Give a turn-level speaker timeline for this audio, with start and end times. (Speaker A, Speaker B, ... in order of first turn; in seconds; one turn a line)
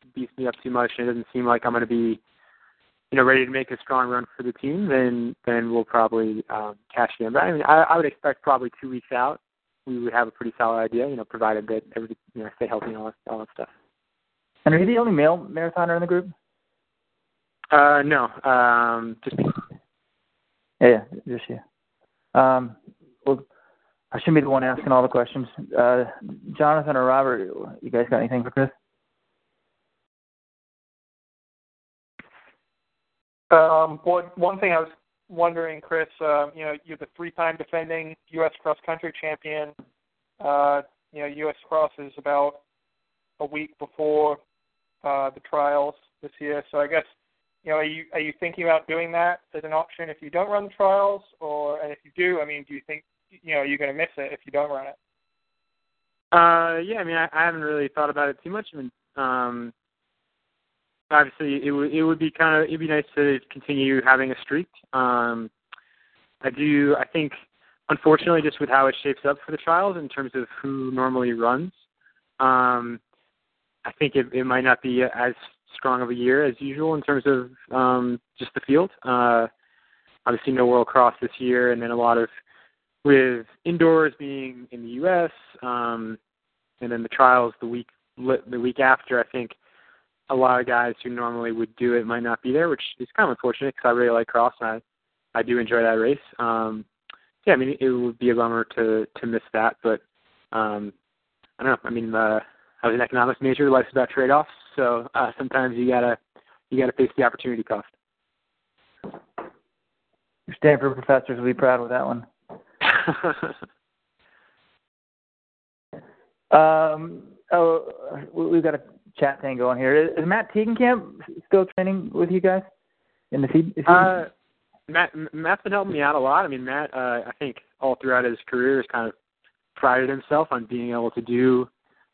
Speaker A: 0.1-2.2
Speaker A: 3.1-13.7
Speaker B: 14.7-16.3
Speaker A: 17.7-19.5
Speaker B: 20.8-21.6
Speaker B: 22.3-23.4
Speaker B: 24.1-28.7
Speaker C: 33.5-39.8
Speaker C: 40.4-42.6
Speaker C: 43.4-44.4
Speaker C: 45.0-47.1
Speaker C: 47.6-55.0
Speaker A: 56.3-59.7
Speaker A: 61.1-65.5
Speaker A: 66.4-67.3
Speaker A: 67.9-71.7
Speaker A: 72.4-73.0
Speaker A: 73.8-79.5
Speaker A: 80.3-82.3
Speaker A: 83.0-86.2
Speaker A: 86.8-89.5
Speaker A: 90.3-94.8
Speaker A: 95.3-96.9
Speaker A: 97.5-100.0
Speaker A: 100.5-100.9
Speaker A: 101.6-106.2
Speaker A: 106.7-107.9
Speaker B: 110.5-112.3
Speaker B: 116.5-122.7
Speaker B: 123.3-124.2
Speaker A: 123.9-124.3
Speaker A: 124.9-129.1
Speaker A: 129.8-131.7